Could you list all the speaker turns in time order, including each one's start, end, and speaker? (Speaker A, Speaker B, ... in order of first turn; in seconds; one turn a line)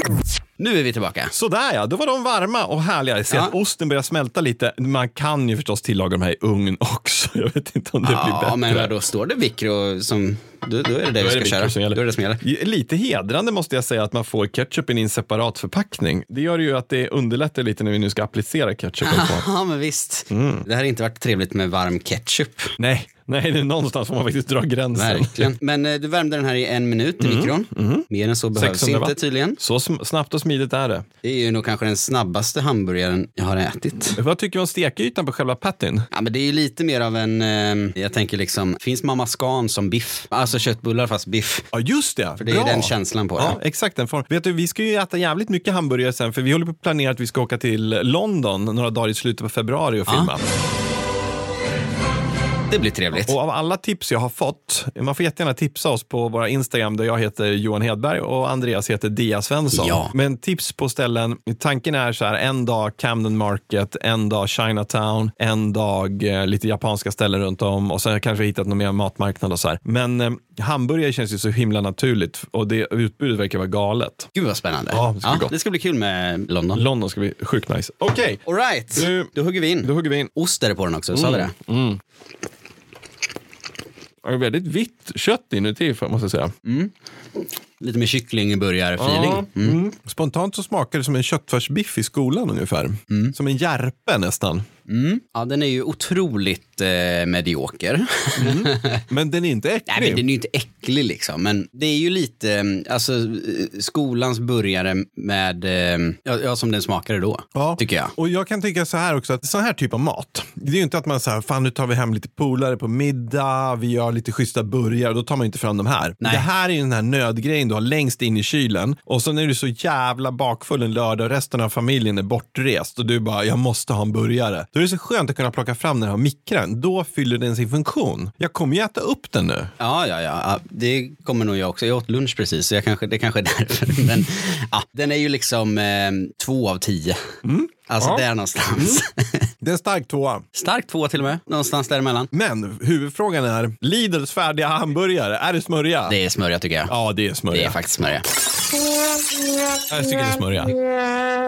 Speaker A: 0.6-1.3
Speaker B: 1.3-8.9
Speaker A: 3.3-3.5
Speaker A: 8.0-12.4
Speaker B: 11.2-19.5
Speaker A: 19.0-22.7
Speaker B: 20.3-20.6
Speaker B: 22.8-25.5
Speaker A: 24.9-29.6
Speaker B: 27.2-31.1
Speaker A: 31.2-34.2
Speaker B: 34.1-36.1
Speaker A: 36.1-41.6
Speaker B: 41.7-50.5
Speaker A: 42.4-43.6
Speaker A: 50.1-50.3
Speaker A: 52.7-53.3
Speaker B: 53.2-74.3
Speaker A: 59.7-60.1
Speaker A: 74.3-76.8
Speaker B: 74.9-75.5
Speaker B: 76.7-78.4
Speaker A: 78.5-81.5
Speaker B: 78.9-79.3
Speaker B: 79.8-80.3
Speaker B: 81.1-82.0
Speaker B: 84.2-86.5
Speaker A: 86.6-86.9
Speaker A: 87.8-89.8
Speaker B: 89.0-94.7
Speaker A: 93.1-93.3
Speaker A: 94.9-99.0
Speaker B: 98.4-100.2
Speaker A: 99.9-108.1
Speaker B: 107.5-129.7
Speaker A: 116.2-116.5
Speaker A: 129.8-137.3
Speaker B: 137.4-139.0
Speaker A: 137.9-139.5
Speaker B: 139.6-140.4
Speaker A: 140.5-142.3
Speaker B: 142.3-146.2
Speaker A: 146.1-146.9
Speaker B: 146.9-147.8
Speaker A: 147.5-148.2
Speaker B: 149.9-150.8